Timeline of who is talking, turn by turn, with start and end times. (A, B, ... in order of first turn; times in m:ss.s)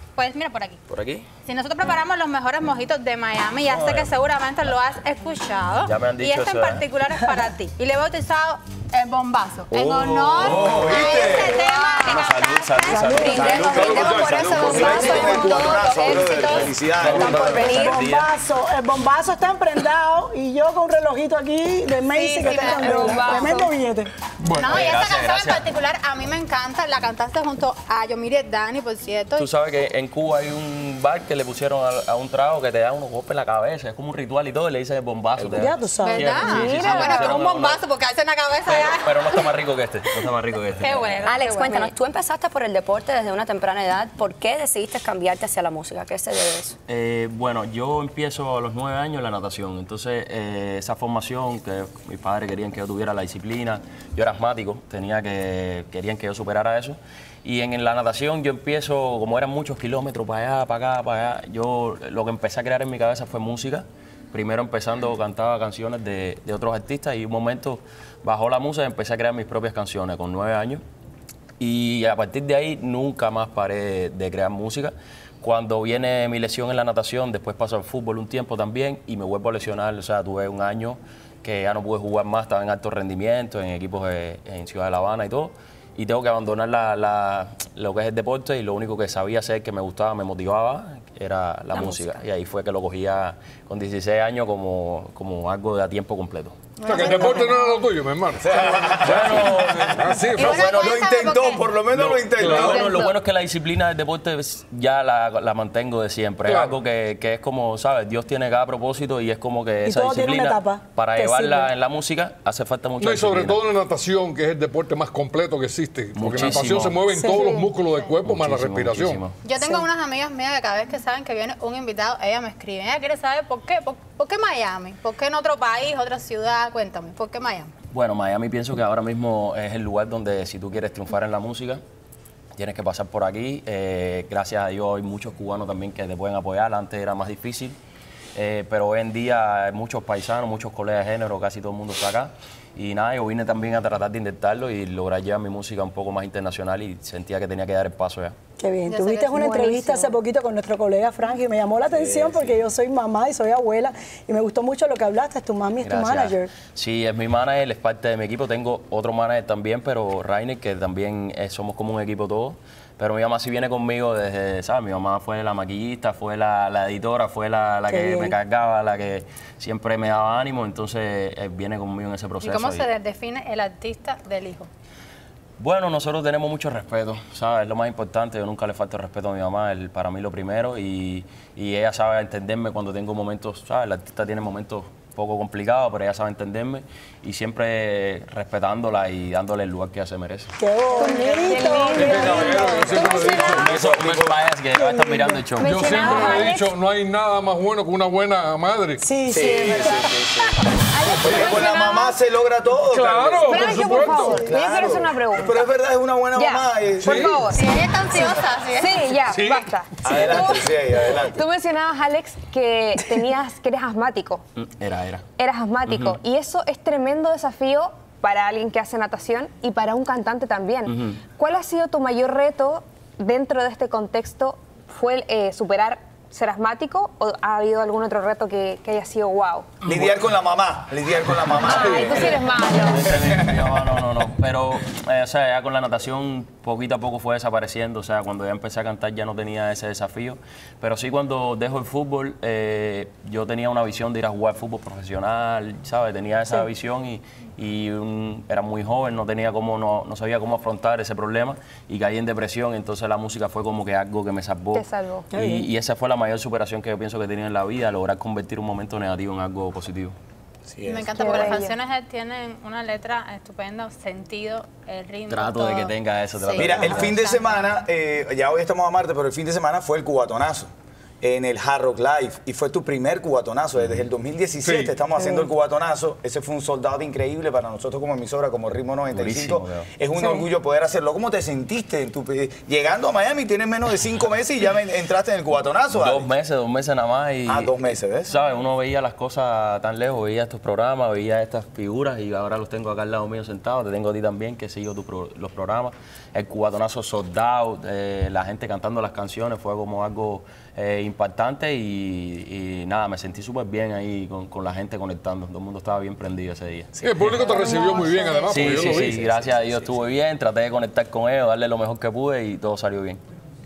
0:00.2-0:00.8 A
0:00.9-0:01.3 B
0:01.4-0:12.9 A
0:03.7-0:04.1 B
0:05.8-0:06.8 B
0:09.7-0:11.4 B
0:09.9-0:11.6 C
0:11.0-0:18.0 D
0:12.0-0:15.4 B
0:12.9-0:13.6 E
0:13.3-0:17.9 C
0:14.1-0:14.6 F
0:16.6-0:18.3 B
0:17.1-0:24.1 E
0:22.1-0:23.6 A
0:22.6-0:23.7 G
0:24.4-0:24.9 F
0:24.6-0:29.5 A
0:24.6-0:25.6 B
0:29.4-0:37.8 B
0:35.5-0:36.4 E
0:36.0-0:39.5 A
0:36.4-0:37.3 G
0:38.7-0:41.3 B
0:40.8-0:41.9 A
0:41.2-0:46.8 D
0:46.9-1:10.8 B
1:11.6-1:36.7 B
1:36.8-1:37.6 E
1:36.8-1:40.9 F
1:36.9-1:37.5 G
1:38.4-1:43.0 C
1:39.0-1:40.0 B
1:40.4-1:41.7 A
1:42.0-1:53.6 B
1:42.1-1:42.8 F
1:42.8-1:43.1 G
1:46.5-1:46.8 F
1:49.8-1:51.7 E
1:53.0-1:59.2 F
1:56.2-1:57.0 B
1:57.2-1:57.7 E
1:58.2-1:59.4 B
1:59.4-2:07.7 A
1:59.6-1:59.9 E
2:07.9-2:11.8 B
2:12.6-2:17.8 B
2:18.4-2:28.4 B
2:28.6-2:36.5 E
2:28.9-2:29.2 A
2:29.0-2:30.2 G
2:31.9-2:32.6 B
2:35.8-2:52.9 B
2:47.9-2:48.3 E
2:52.4-2:54.7 A
2:55.6-3:10.5 B
3:10.6-3:12.8 E
3:10.9-3:13.9 G
3:11.9-3:14.3 F
3:12.0-3:12.4 B
3:13.3-3:14.3 C
3:13.4-3:16.3 B
3:14.7-3:15.4 E
3:15.6-3:16.7 G
3:15.6-3:19.0 F
3:16.0-3:16.5 E
3:19.0-3:20.1 E
3:19.3-3:27.4 C
3:21.0-3:21.9 G
3:21.1-3:21.8 D
3:22.9-3:24.4 F
3:23.4-3:25.7 G
3:23.6-3:24.6 E
3:26.3-3:34.4 G
3:27.0-3:27.5 F
3:27.5-3:29.1 A
3:29.2-3:29.7 F
3:30.0-3:31.4 C
3:34.6-3:35.2 B
3:35.4-3:49.7 G
3:35.9-3:36.2 B
3:40.9-3:41.2 B
3:49.8-3:52.5 C
3:51.6-3:53.1 G
3:51.6-4:20.2 B
3:53.1-3:53.7 C
4:14.7-4:15.3 G
4:15.3-4:15.7 E
4:20.7-4:21.5 C
4:20.9-4:27.5 A
4:21.1-4:21.8 G
4:25.3-4:27.2 B
4:26.6-4:30.7 C
4:31.2-4:46.3 C
4:34.6-4:34.9 F
4:35.2-4:35.5 E
4:39.1-4:39.9 B
4:40.2-4:40.5 E
4:45.9-5:07.5 B
4:47.5-4:48.3 C
5:07.0-5:09.4 F
5:07.5-5:08.5 G
5:08.5-5:13.2 B